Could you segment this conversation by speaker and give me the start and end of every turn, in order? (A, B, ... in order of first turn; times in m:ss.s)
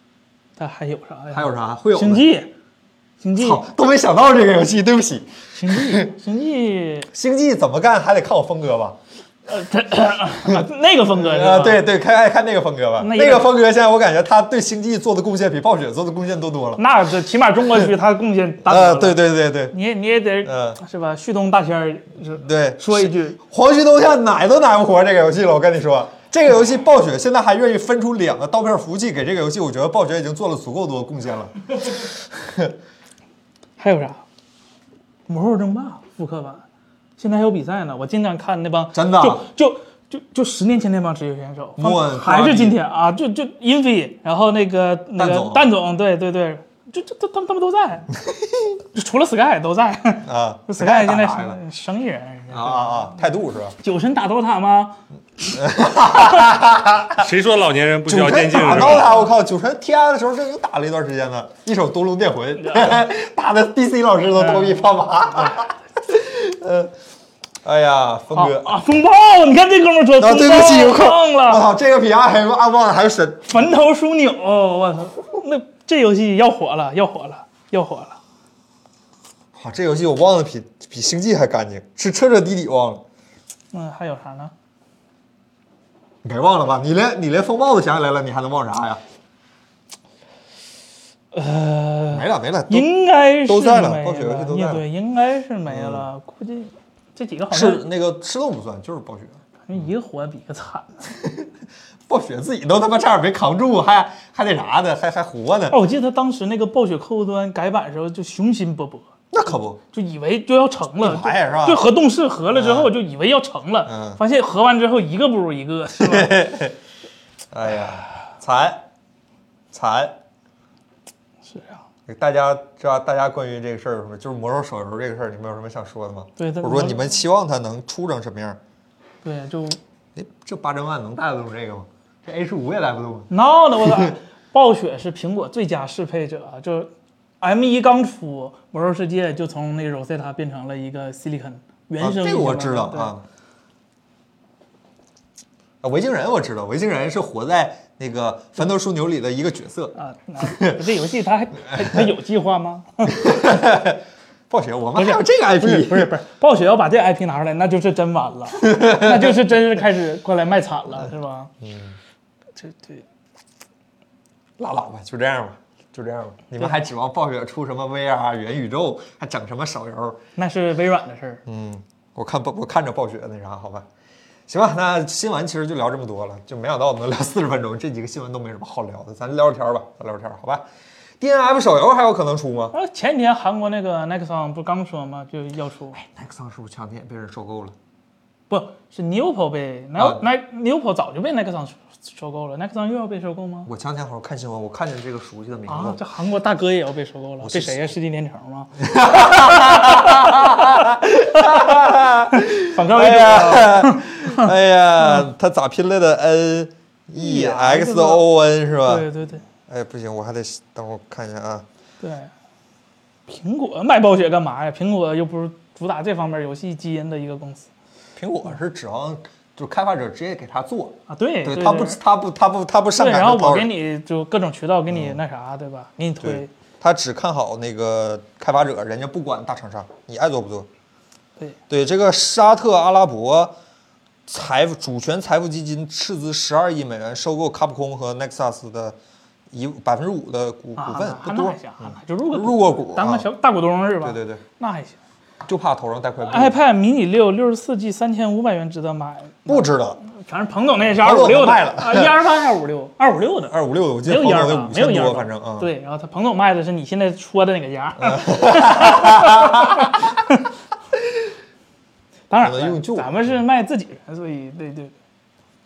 0:00.6-0:02.5 A
0:01.3-0:02.3 B
0:03.2-0:03.6 A
0:03.4-0:06.1 B
0:05.5-0:07.1 A
0:07.1-0:09.0 B
0:09.5-0:11.8 A
0:10.4-0:16.8 B
0:13.0-0:13.5 A
0:16.8-0:23.4 A
0:18.6-0:19.7 B
0:20.4-0:20.8 B
0:22.4-0:32.7 B
0:33.8-0:34.2 A
0:35.3-0:36.6 A
0:37.2-0:48.1 A
0:38.9-0:39.4 B
0:41.8-0:42.8 B
0:45.2-0:45.7 B
0:48.3-0:48.8 B
0:48.9-0:53.2 A
0:50.2-0:51.6 B
0:52.5-0:53.7 B
0:53.8-0:56.5 A
0:55.5-0:57.3 B
0:57.1-0:59.1 C
0:58.0-1:06.9 B
0:58.6-0:59.3 A
1:02.6-1:03.0 A
1:04.4-1:05.6 A
1:07.6-1:08.8 B
1:08.3-1:11.6 A
1:10.2-1:13.7 B
1:13.4-1:18.2 A
1:19.5-1:23.0 B
1:23.7-1:24.5 A
1:26.2-1:29.0 B
1:31.3-1:37.8 A
1:32.1-1:32.9 B
1:33.4-1:34.8 B
1:35.6-1:36.1 B
1:37.5-1:39.8 B
1:39.6-1:41.1 A
1:41.1-1:41.5 B
1:42.1-1:45.8 B
1:45.7-1:49.1 A
1:49.3-1:49.8 B
1:49.9-1:56.4 A
1:51.0-1:51.8 B
1:52.5-1:52.9 B
1:53.8-1:54.2 B
1:56.0-1:56.7 B
1:57.5-1:58.8 B
1:59.7-2:00.2 B
2:01.4-2:01.8 A
2:02.1-2:08.6 B
2:06.4-2:07.1 A
2:09.2-2:09.8 A
2:10.1-2:14.1 B
2:13.3-2:23.1 A
2:22.0-2:23.2 B
2:25.8-2:30.8 B
2:29.9-2:33.3 A
2:31.6-2:32.1 B
2:33.1-2:36.1 B
2:35.0-2:41.5 A
2:38.6-2:39.4 B
2:41.6-2:42.0 B
2:42.6-2:43.0 A
2:44.6-2:50.2 B
2:50.4-2:51.4 A
2:51.4-2:53.8 B
2:54.5-3:00.6 B
3:01.2-3:02.7 B
3:02.7-3:06.0 A
3:05.9-3:07.8 B
3:08.5-3:13.7 A
3:10.0-3:10.2 B
3:13.6-3:16.0 B
3:15.7-3:24.5 A
3:17.4-3:17.9 B
3:18.8-3:29.1 B
3:27.1-3:28.2 A
3:28.8-3:29.4 A
3:29.7-3:31.6 B
3:32.0-3:32.3 A
3:33.3-3:37.7 A
3:38.2-3:43.7 B
3:41.1-3:42.0 A
3:43.0-3:46.5 A
3:44.9-3:45.2 B
3:46.2-3:50.7 B
3:51.7-3:53.5 B
3:54.3-3:59.0 B
3:59.5-4:03.3 B
4:00.8-4:05.0 A
4:04.0-4:04.4 B
4:05.4-4:06.6 B
4:06.2-4:20.5 A
4:09.4-4:10.0 B
4:10.9-4:12.2 B
4:13.5-4:15.7 B
4:18.0-4:20.0 B
4:21.0-4:21.2 B
4:22.3-4:24.9 A
4:22.4-4:23.3 B